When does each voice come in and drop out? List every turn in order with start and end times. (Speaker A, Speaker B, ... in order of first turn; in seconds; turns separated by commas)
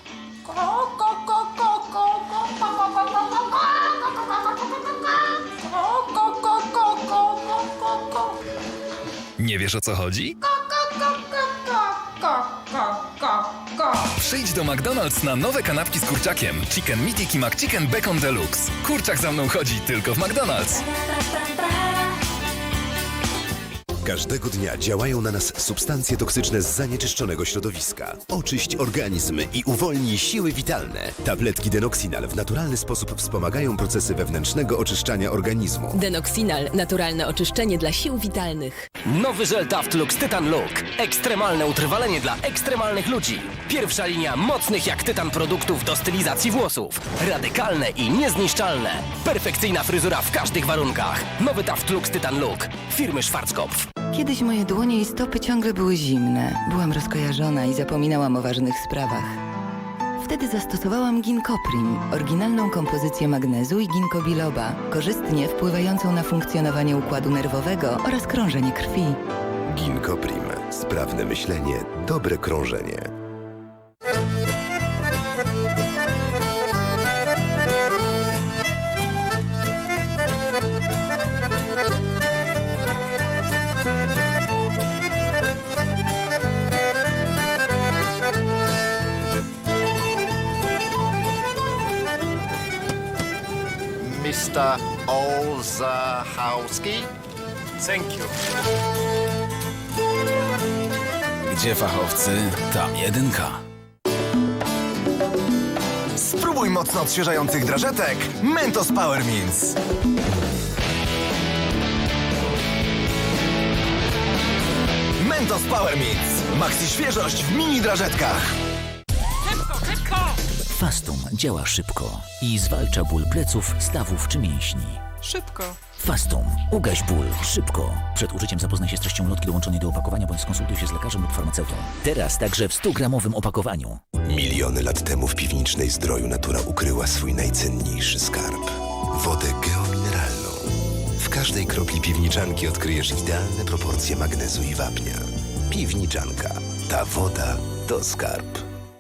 Speaker A: 0.5-2.0, Speaker A: 3.6-3.9, Speaker A: 5.8-7.4, Speaker B: 9.4-10.4, Speaker A: 10.6-11.2, Speaker A: 11.9-13.2, Speaker B: 14.1-20.8, Speaker C: 24.0-36.0, Speaker D: 36.0-38.9, Speaker E: 39.0-53.8, Speaker F: 54.1-59.4, Speaker F: 60.2-69.2, Speaker C: 69.7-73.1, Speaker G: 94.0-97.1, Speaker B: 101.5-103.6, Speaker H: 106.2-109.8, Speaker H: 115.2-118.5, Speaker I: 120.7-125.0, Speaker A: 125.3-125.8, Speaker I: 125.9-134.0, Speaker C: 134.2-148.6